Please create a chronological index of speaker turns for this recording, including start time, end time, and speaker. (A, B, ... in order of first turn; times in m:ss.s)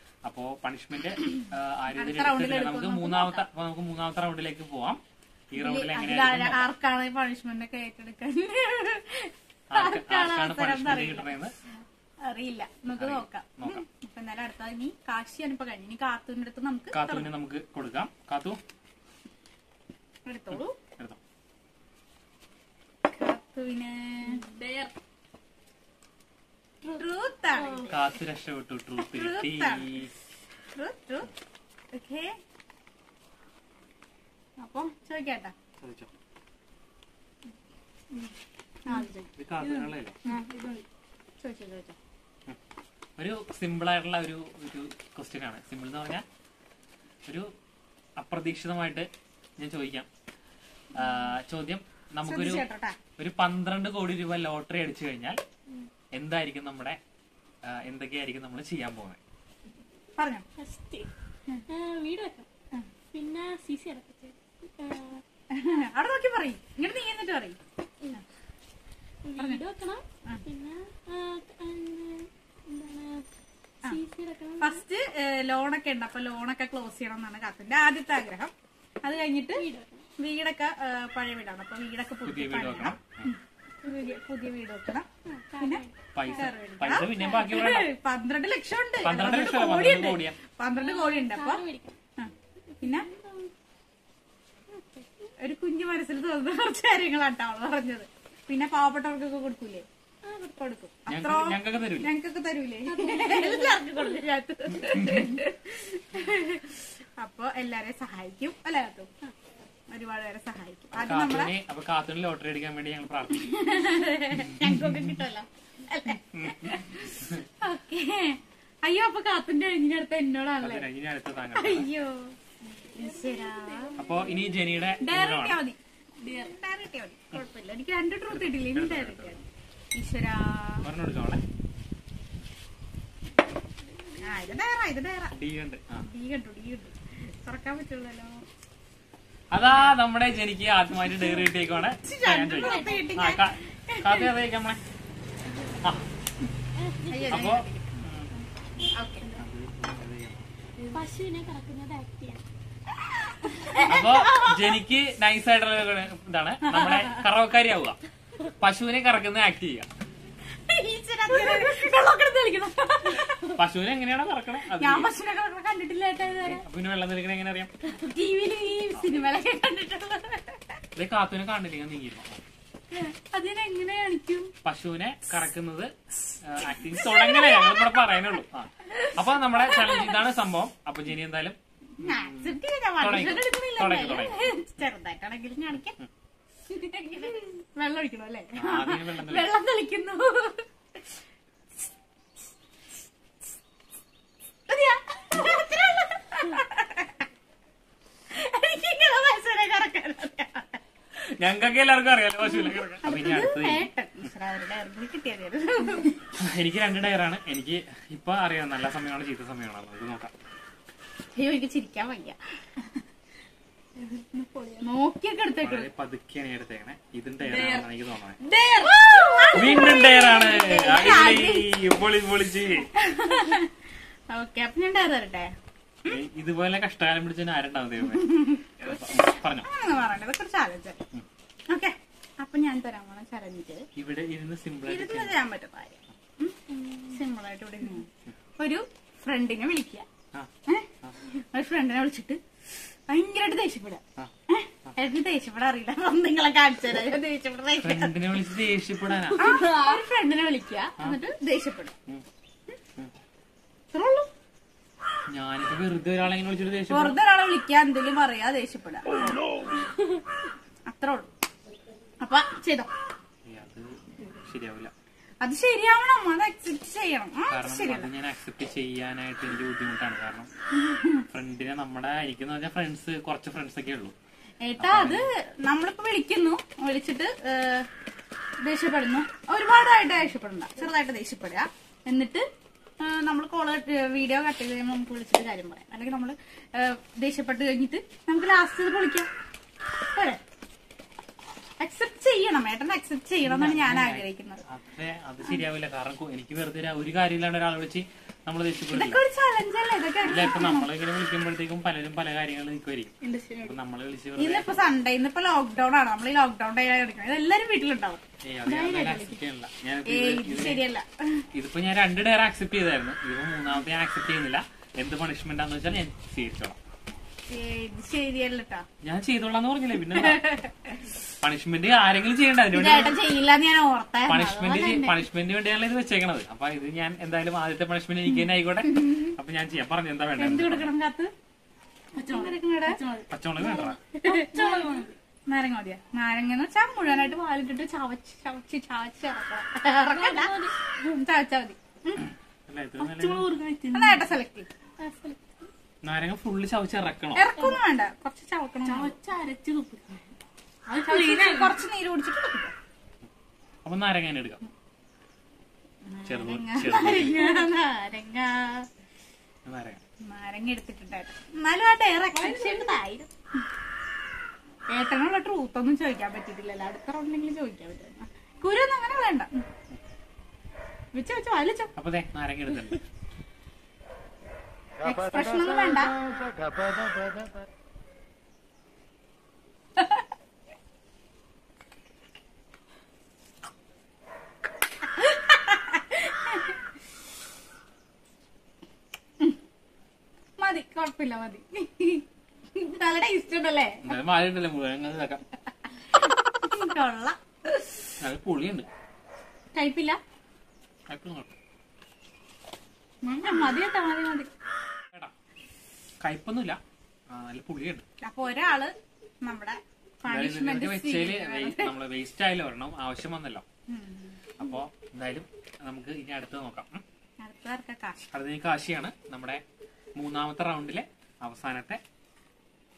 0:00.2-0:06.7 A
0:01.4-0:03.4 B
0:05.5-0:11.4 B
0:09.7-0:11.5 A
0:12.2-0:17.3 B
0:13.0-0:13.8 A
0:16.9-0:18.6 A
0:20.2-0:20.8 B
0:20.5-0:21.2 A
0:23.1-0:24.4 B
0:24.2-0:24.9 C
0:26.8-0:28.0 C
0:27.0-0:27.9 B
0:27.9-0:30.1 A
0:29.0-0:30.0 B
0:30.7-0:31.3 B
0:31.9-0:32.4 B
0:34.6-0:35.5 B
0:35.8-0:36.1 A
0:38.8-0:39.3 B
0:38.9-0:40.8 C
0:39.4-0:40.2 A
0:40.2-0:40.6 B
0:41.4-0:42.0 B
0:43.2-0:46.2 A
0:47.2-0:47.5 A
0:48.2-0:50.1 A
0:50.9-0:52.6 A
0:52.2-0:53.0 B
0:53.2-0:55.4 A
0:56.1-0:57.0 A
0:57.6-0:59.2 A
1:00.2-1:00.4 B
1:00.6-1:01.1 C
1:01.7-1:02.5 C
1:03.1-1:05.2 C
1:05.5-1:07.6 B
1:09.2-1:13.3 C
1:13.8-1:14.8 C
1:14.6-1:18.5 B
1:19.0-1:19.6 B
1:19.5-1:20.1 C
1:20.2-1:25.1 B
1:22.2-1:23.3 A
1:25.3-1:26.5 C
1:25.6-1:31.6 B
1:26.1-1:27.9 A
1:29.0-1:30.4 A
1:30.7-1:32.0 C
1:32.2-1:33.1 B
1:32.7-1:33.5 C
1:34.7-1:35.1 C
1:35.4-1:39.8 B
1:40.2-1:40.5 C
1:40.5-1:49.1 B
1:41.1-1:42.1 A
1:42.8-1:44.2 C
1:44.8-1:45.3 A
1:49.9-1:51.5 B
1:50.9-1:53.5 A
1:53.3-2:00.9 B
1:54.3-1:55.2 A
1:56.3-1:57.4 A
2:00.6-2:01.9 A
2:01.5-2:02.4 B
2:02.7-2:04.6 C
2:02.9-2:04.0 B
2:04.0-2:05.6 A
2:05.0-2:10.8 B
2:08.3-2:09.4 A
2:10.8-2:11.4 A
2:14.2-2:15.4 B
2:15.3-2:16.1 A
2:15.9-2:18.4 B
2:19.5-2:24.8 A
2:22.0-2:24.3 B
2:22.5-2:23.1 C
2:26.8-2:27.6 C
2:27.1-2:28.1 B
2:27.3-2:28.3 A
2:28.9-2:29.4 B
2:29.4-2:30.5 A
2:30.9-2:32.4 C
2:33.0-2:34.7 B
2:33.9-2:38.0 A
2:36.6-2:37.2 B
2:38.6-2:39.9 A
2:40.5-2:43.5 B
2:41.4-2:41.8 C
2:43.5-2:45.1 A
2:44.7-2:46.6 B
2:46.2-2:47.7 A
2:47.8-2:50.8 B
2:51.0-2:52.4 A
2:52.9-2:54.5 B
2:54.6-3:04.5 A
2:57.0-2:57.9 B
2:59.7-3:00.1 B
3:02.0-3:06.0 B
3:06.7-3:10.6 B
3:08.6-3:09.5 A
3:14.7-3:17.2 B
3:18.3-3:20.8 B
3:21.2-3:24.3 A
3:22.6-3:26.2 B
3:26.3-3:30.3 A
3:31.3-3:32.4 B
3:34.0-3:34.9 C
3:34.8-3:35.9 B
3:35.6-3:38.4 A
3:37.4-3:37.9 C
3:38.4-3:41.8 B
3:38.5-3:40.0 C
3:39.5-3:42.9 A
3:42.9-3:43.7 B
3:44.3-3:45.5 B
3:46.0-3:49.7 A
3:48.1-3:51.0 B
3:51.7-3:53.9 B
3:54.0-3:55.4 A
3:54.8-3:58.1 B
3:56.7-3:57.2 C
3:58.6-4:00.1 B
4:00.7-4:02.4 B
4:03.1-4:08.2 B
4:07.8-4:09.5 A
4:09.3-4:10.0 C
4:09.4-4:12.0 B
4:13.9-4:14.3 B
4:15.3-4:17.2 A
4:16.9-4:19.5 B
4:20.9-4:21.3 B
4:22.2-4:22.9 B
4:23.4-4:24.9 A
4:25.4-4:28.1 B
4:27.5-4:30.5 A
4:30.8-4:31.2 B
4:31.3-4:34.1 A
4:34.6-4:37.9 B
4:34.8-4:35.3 A
4:38.6-4:42.4 B
4:43.0-4:49.3 B
4:50.1-4:50.4 B
4:51.8-4:54.6 B
4:53.4-4:59.2 A
4:58.9-5:00.9 B
5:00.2-5:04.8 A
5:03.2-5:03.7 C
5:04.4-5:09.3 B
5:08.4-5:10.8 A
5:08.9-5:09.2 C
5:10.0-5:11.5 B
5:11.5-5:16.8 A
5:17.4-5:18.8 B
5:19.0-5:20.4 A
5:20.1-5:21.1 B
5:21.4-5:23.2 A
5:22.7-5:25.2 B
5:24.3-5:30.9 A
5:28.3-5:29.4 B
5:30.4-5:31.3 B
5:32.2-5:35.1 C
5:32.2-5:33.0 B
5:33.3-5:34.0 A
5:33.6-5:42.3 B
5:40.1-5:40.7 C
5:42.2-5:43.5 A
5:43.0-5:44.2 C
5:43.9-5:44.7 B
5:45.0-5:45.7 C
5:46.0-5:47.5 A
5:47.3-5:49.1 B
5:48.8-5:50.2 C
5:50.9-5:51.8 C
5:51.1-5:52.7 B
5:53.8-5:54.6 A
5:56.1-5:58.9 B
5:56.2-5:57.4 A
5:59.6-6:00.0 A
6:00.2-6:03.2 B
6:02.3-6:03.2 C
6:04.9-6:09.6 B
6:11.1-6:11.9 B
6:12.0-6:13.0 A
6:15.0-6:16.1 B
6:25.1-6:26.8 B
6:30.6-6:34.2 B
6:34.0-6:35.4 A
6:36.1-6:38.1 B
6:38.2-6:38.9 A
6:39.7-6:40.2 B
6:41.1-6:41.5 A
6:43.2-6:44.5 B
6:46.2-6:48.0 A
6:48.2-6:51.9 B
6:50.2-6:53.6 A
6:53.9-6:54.5 B
6:54.6-6:57.0 A
6:57.4-6:58.2 B
6:58.3-6:59.6 A
7:00.2-7:02.0 A